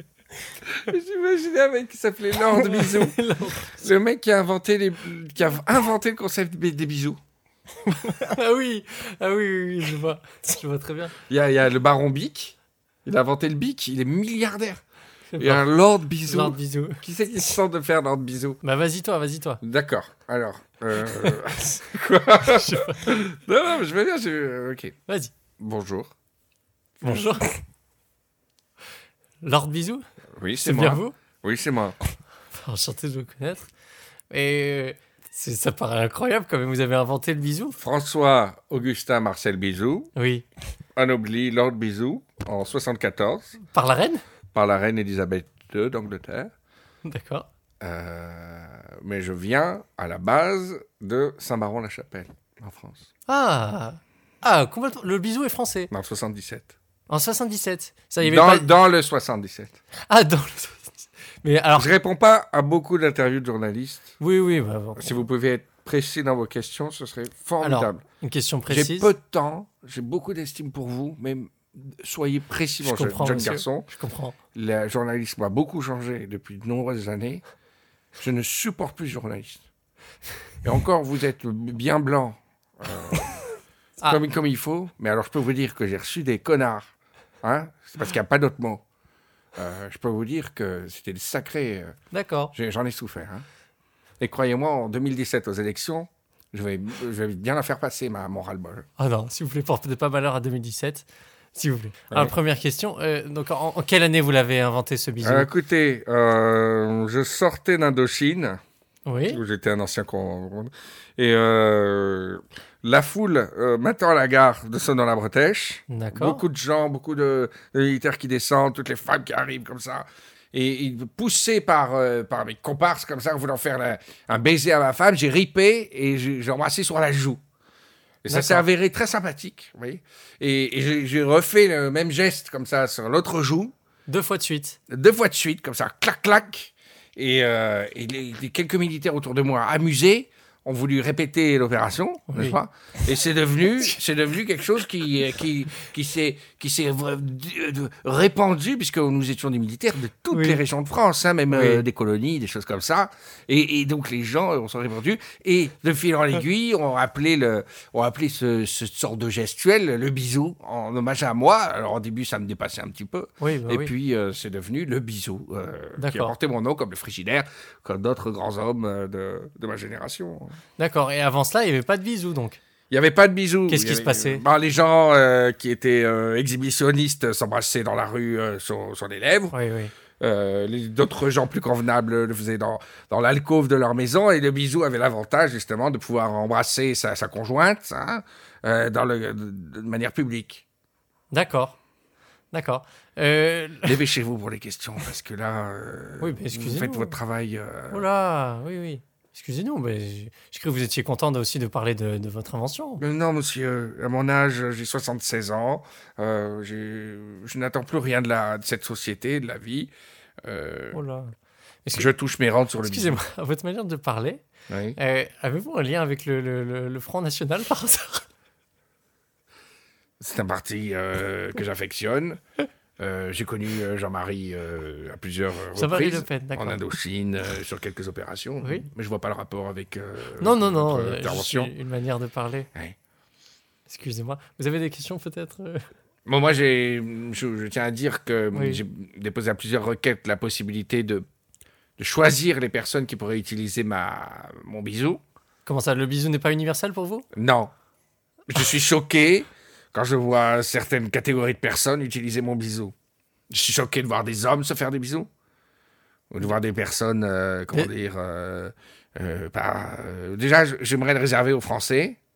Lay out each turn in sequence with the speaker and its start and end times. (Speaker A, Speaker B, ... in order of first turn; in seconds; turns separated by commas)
Speaker A: 0.7-3.2, Speaker B: 2.6-3.9, Speaker A: 3.8-7.2, Speaker B: 7.9-11.2, Speaker A: 11.3-14.8, Speaker B: 15.3-15.6, Speaker A: 15.4-18.6, Speaker B: 16.2-17.0, Speaker B: 18.6-19.6, Speaker A: 19.6-24.9, Speaker B: 22.5-23.1, Speaker A: 25.6-26.1, Speaker A: 27.0-27.4, Speaker B: 27.0-27.5, Speaker B: 29.4-30.1, Speaker A: 30.4-32.0, Speaker B: 30.6-31.1, Speaker B: 32.5-33.7, Speaker B: 34.3-37.8, Speaker A: 37.8-40.1, Speaker B: 40.2-40.4, Speaker A: 41.0-43.6, Speaker B: 43.7-44.2, Speaker A: 44.5-46.5, Speaker B: 47.0-47.5, Speaker A: 47.8-53.1, Speaker B: 53.3-55.9, Speaker A: 55.9-56.7, Speaker B: 57.1-58.7, Speaker A: 58.2-59.8, Speaker B: 60.1-61.9, Speaker A: 61.8-64.2, Speaker B: 64.2-65.2, Speaker A: 65.0-68.0, Speaker B: 67.6-69.1, Speaker A: 68.7-73.9, Speaker B: 72.8-74.3, Speaker A: 74.5-77.4, Speaker A: 78.2-79.7, Speaker A: 80.6-83.4, Speaker A: 84.0-86.9, Speaker A: 87.4-88.8, Speaker A: 89.5-92.0, Speaker B: 92.1-92.5, Speaker A: 92.5-93.5, Speaker A: 94.2-98.9, Speaker B: 99.0-105.5, Speaker A: 105.2-108.6, Speaker B: 109.1-109.4, Speaker A: 109.3-127.4, Speaker B: 115.9-116.4, Speaker A: 128.2-133.8, Speaker B: 128.3-128.7, Speaker B: 134.1-134.8, Speaker A: 134.9-170.6, Speaker B: 142.3-142.6, Speaker B: 150.3-150.6, Speaker B: 151.5-151.8, Speaker B: 163.4-163.9, Speaker B: 166.0-166.3, Speaker B: 170.8-172.6, Speaker A: 172.9-179.6, Speaker B: 173.7-174.4, Speaker B: 179.5-179.9, Speaker A: 180.2-190.6, Speaker B: 191.3-191.8, Speaker B: 192.5-194.0, Speaker A: 193.8-198.1, Speaker B: 196.2-197.2, Speaker B: 197.9-203.0, Speaker A: 203.0-211.0, Speaker B: 210.9-211.3, Speaker B: 211.8-212.1, Speaker A: 211.9-213.2, Speaker B: 212.8-214.4, Speaker A: 214.7-215.0, Speaker B: 215.0-218.2, Speaker A: 220.2-222.4, Speaker A: 223.0-231.7, Speaker B: 225.8-226.8, Speaker B: 230.4-232.7, Speaker B: 233.9-235.9, Speaker A: 236.3-241.3, Speaker B: 238.5-238.8, Speaker A: 242.0-245.2, Speaker B: 245.7-247.3, Speaker A: 247.3-247.7, Speaker A: 248.5-252.9, Speaker A: 253.5-255.3, Speaker A: 256.3-262.2